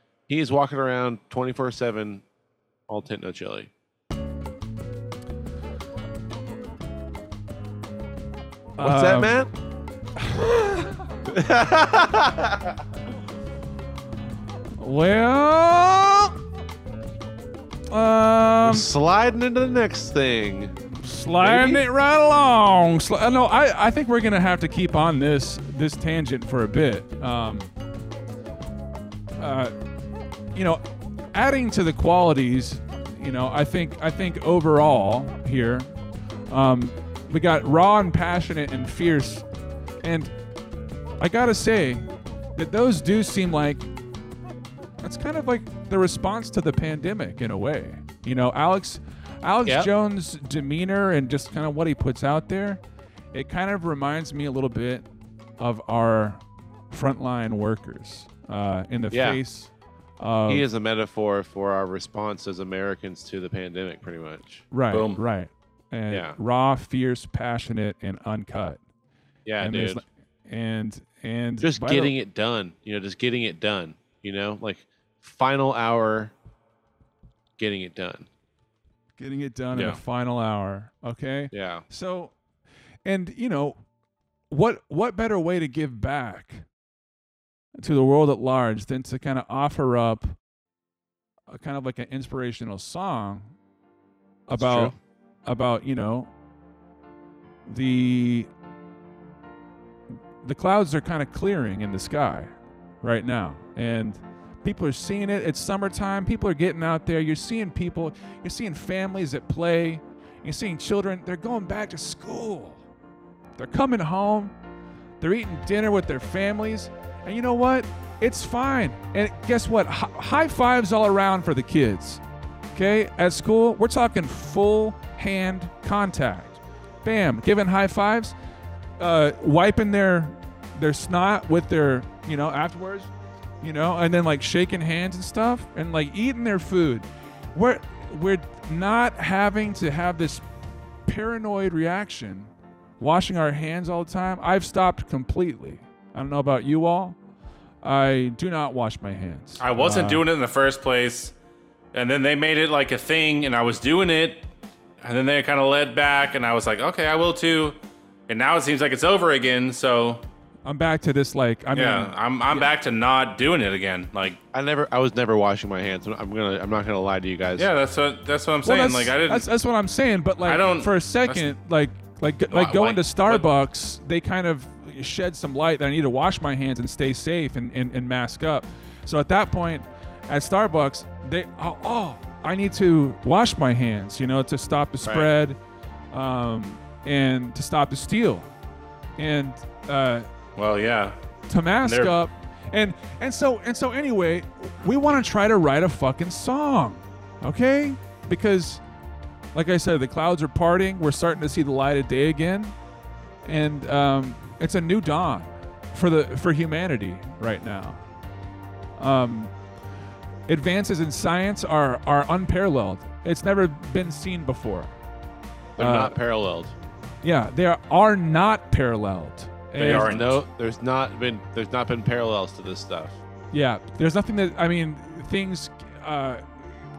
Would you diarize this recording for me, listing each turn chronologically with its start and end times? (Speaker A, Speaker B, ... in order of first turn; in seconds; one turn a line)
Speaker A: 0.3-2.2
Speaker A: 2.9-3.7
Speaker B: 8.8-9.4
Speaker A: 8.8-9.5
Speaker B: 10.2-10.9
Speaker A: 11.3-12.7
Speaker B: 14.8-16.4
Speaker B: 17.9-18.9
Speaker A: 18.6-20.8
Speaker B: 21.0-27.7
Speaker A: 21.4-21.8
Speaker B: 29.4-29.7
Speaker B: 30.5-30.8
Speaker B: 31.3-35.9
Speaker B: 36.5-39.5
Speaker B: 40.0-40.3
Speaker B: 41.2-43.9
Speaker B: 45.0-52.8
Speaker B: 53.3-55.1
Speaker B: 55.6-60.6
Speaker A: 59.1-59.4
Speaker A: 60.5-64.7
Speaker B: 64.7-68.8
Speaker C: 64.9-65.2
Speaker A: 66.1-66.4
Speaker A: 69.5-70.0
Speaker B: 69.6-72.1
Speaker A: 71.6-76.3
Speaker A: 77.6-78.3
Speaker B: 79.2-82.3
Speaker A: 81.5-81.8
Speaker B: 83.0-83.8
Speaker B: 84.5-86.6
Speaker B: 87.8-90.3
Speaker B: 91.5-93.5
Speaker B: 94.5-94.9
Speaker A: 94.6-95.0
Speaker B: 95.5-96.3
Speaker B: 97.7-98.5
Speaker B: 100.4-112.8
Speaker B: 113.6-114.5
Speaker B: 115.2-122.2
Speaker B: 122.7-128.3
Speaker B: 129.0-133.1
Speaker B: 133.6-140.4
Speaker B: 141.1-147.2
Speaker B: 147.8-150.2
Speaker C: 149.6-151.3
Speaker C: 151.9-154.5
Speaker C: 155.0-157.8
Speaker C: 158.3-160.2
Speaker B: 160.7-162.7
Speaker C: 161.7-164.4
Speaker A: 164.5-167.7
Speaker C: 167.6-169.5
Speaker B: 168.6-185.6
Speaker C: 170.4-171.5
Speaker A: 172.5-173.0
Speaker A: 185.0-185.3
Speaker B: 186.1-188.5
Speaker B: 189.2-190.3
Speaker C: 190.6-191.2
Speaker B: 191.5-198.8
Speaker C: 191.8-192.2
Speaker B: 199.5-202.8
Speaker B: 203.4-208.0
Speaker B: 209.0-209.5
Speaker B: 210.5-214.9
Speaker A: 215.8-216.7
Speaker B: 215.8-216.2
Speaker B: 217.2-220.4
Speaker C: 219.8-220.4
Speaker A: 219.8-223.2
Speaker B: 223.5-226.4